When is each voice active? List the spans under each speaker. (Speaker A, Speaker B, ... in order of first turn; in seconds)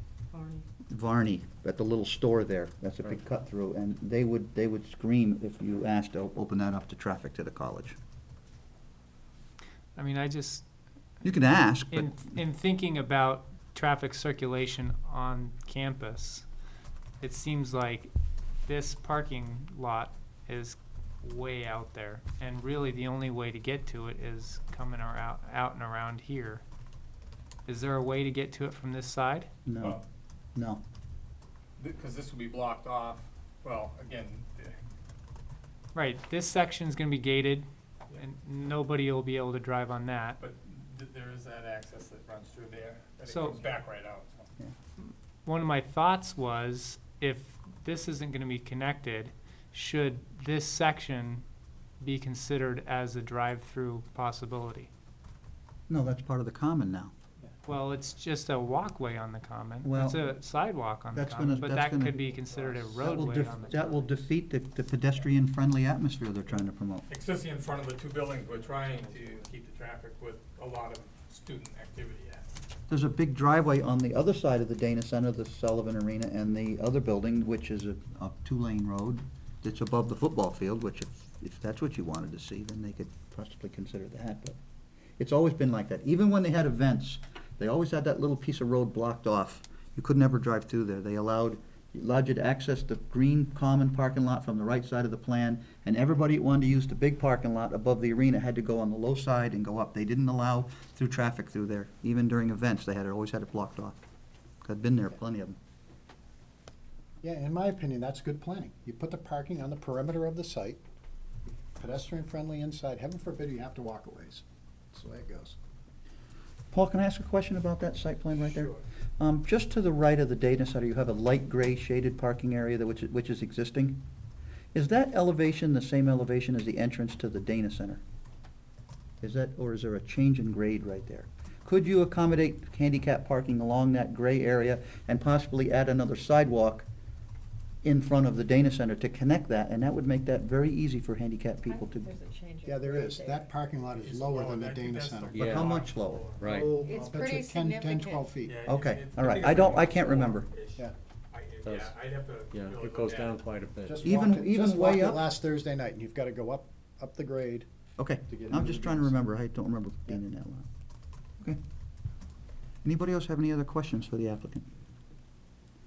Speaker A: 0.3-0.7, 141.6-143.5, 146.7-148.3
Speaker B: 0.9-8.0, 11.2-12.3, 29.6-30.0, 30.5-30.8, 55.9-57.1, 59.8-60.3, 61.1-62.2, 63.0-67.0, 72.9-84.6, 85.2-104.0, 104.6-105.6, 116.7-124.0, 124.7-128.0, 129.2-136.9, 137.8-142.1, 145.4-146.3, 148.6-150.5, 154.0-155.2, 158.0-160.7, 162.8-164.7
Speaker C: 9.9-10.7, 11.9-16.5, 17.2-18.1, 18.6-26.6, 27.7-29.5, 35.9-40.4, 43.3-43.7, 45.0-51.4, 52.0-54.9, 57.6-63.8
Speaker D: 31.8-34.8, 40.4-44.5, 63.7-64.2, 67.1-72.5, 118.5-118.8, 143.9-147.2, 148.4-153.4
Speaker E: 68.5-69.4, 107.2-110.8, 111.8-115.5, 142.6-145.4, 146.4-148.6, 153.8-157.7, 158.2-159.2
Speaker F: 145.3-145.6, 146.4-146.7, 151.6-151.9, 152.5-153.9